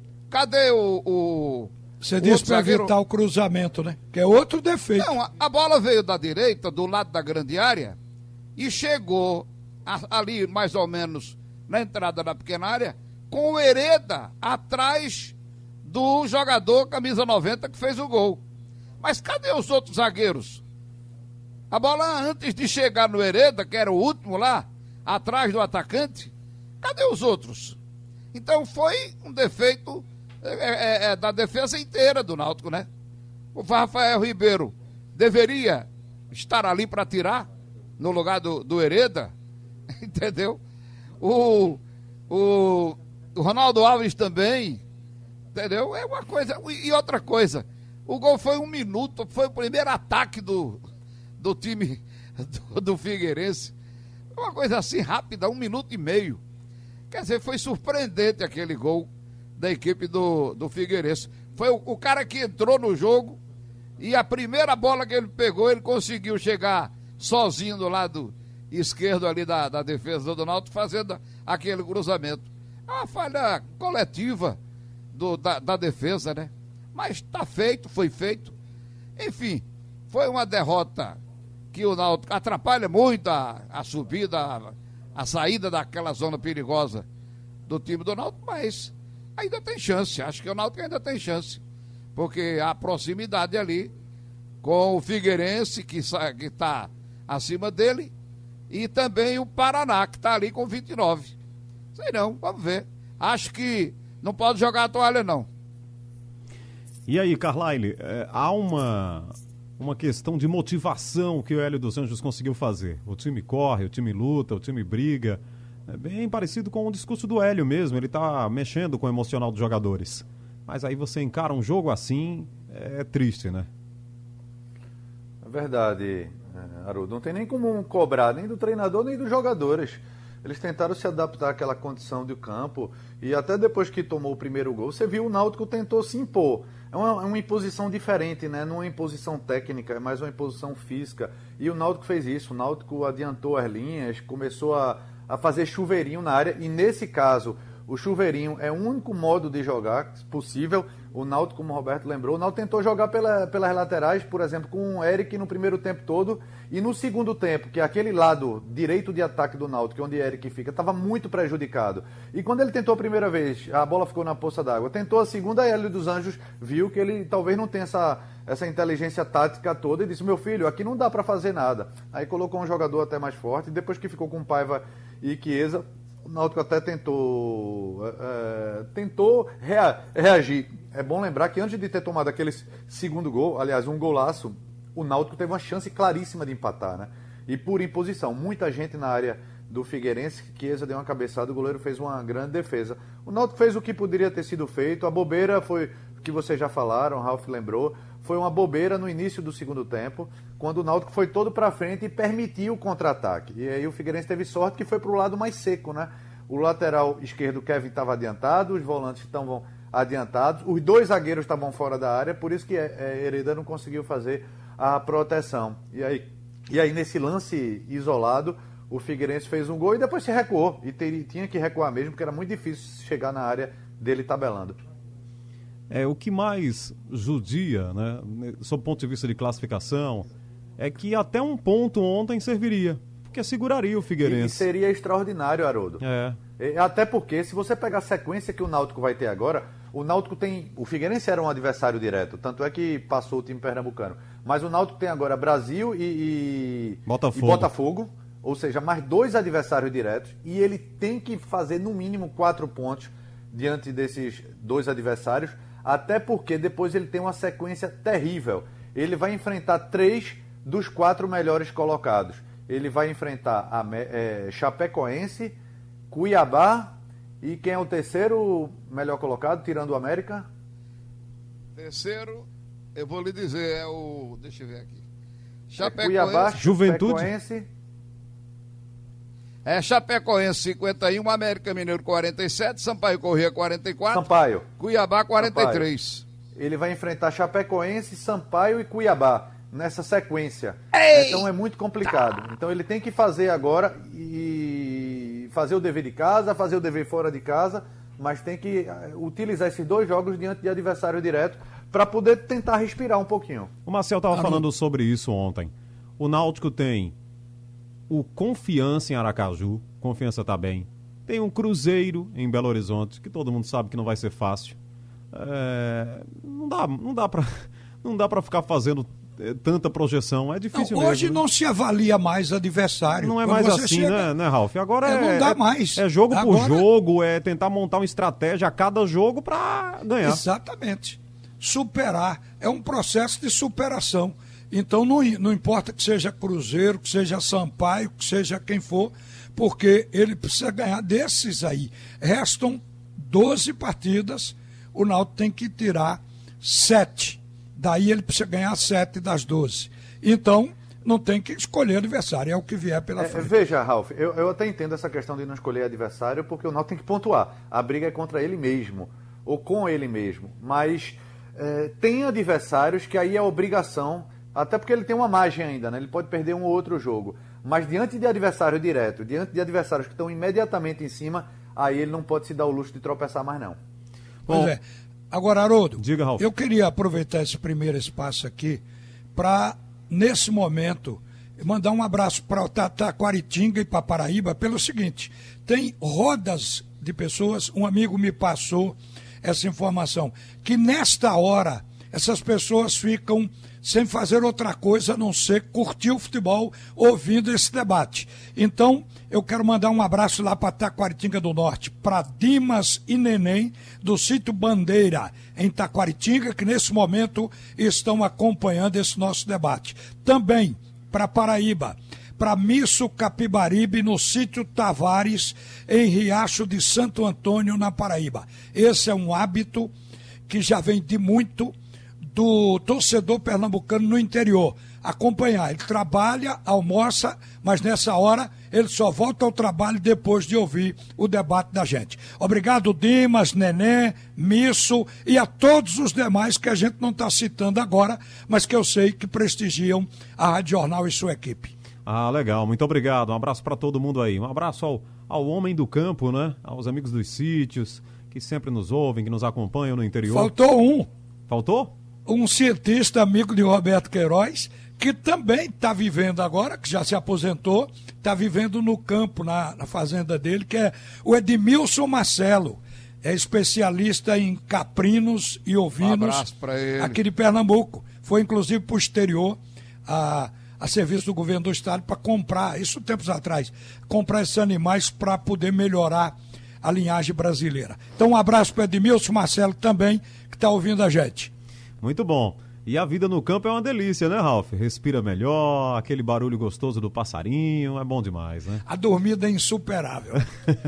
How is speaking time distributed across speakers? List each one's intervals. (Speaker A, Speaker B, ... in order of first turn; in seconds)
Speaker A: 0.3-2.9, 5.0-8.0, 8.6-18.4, 19.0-20.6, 21.7-27.8, 28.3-32.9, 33.5-37.5, 38.0-39.3, 40.0-40.6, 41.2-44.8, 45.5-50.8, 51.4-53.7, 54.4-56.4, 57.1-63.4, 64.0-74.6, 75.1-78.5, 79.2-81.2, 81.7-87.0, 87.7-91.6, 92.2-93.9, 94.6-98.1, 98.7-101.3, 102.0-105.5, 271.8-275.0, 275.7-276.6, 279.6-286.2, 290.9-291.5, 466.0-467.2
Speaker B: 2.0-5.1, 304.3-304.6, 320.7-324.3, 325.0-326.8, 330.2-353.5, 374.5-378.8, 379.4-419.9, 420.5-421.7, 422.3-441.8, 450.3-451.1, 452.3-466.4, 467.0-481.5, 488.9-490.5
Speaker C: 107.1-123.7, 225.9-230.3, 230.8-234.7, 236.0-236.4, 247.1-247.7, 276.5-277.3, 303.9-307.1, 308.1-314.8, 315.3-321.4, 323.2-330.4, 374.5-374.8, 376.0-376.4, 442.1-450.5, 451.5-451.9, 482.0-488.8
Speaker D: 125.4-224.8, 234.2-236.0, 236.6-265.6, 266.1-270.5, 275.8-277.7, 284.1-284.6, 285.4-285.9, 286.6-303.7, 353.2-373.8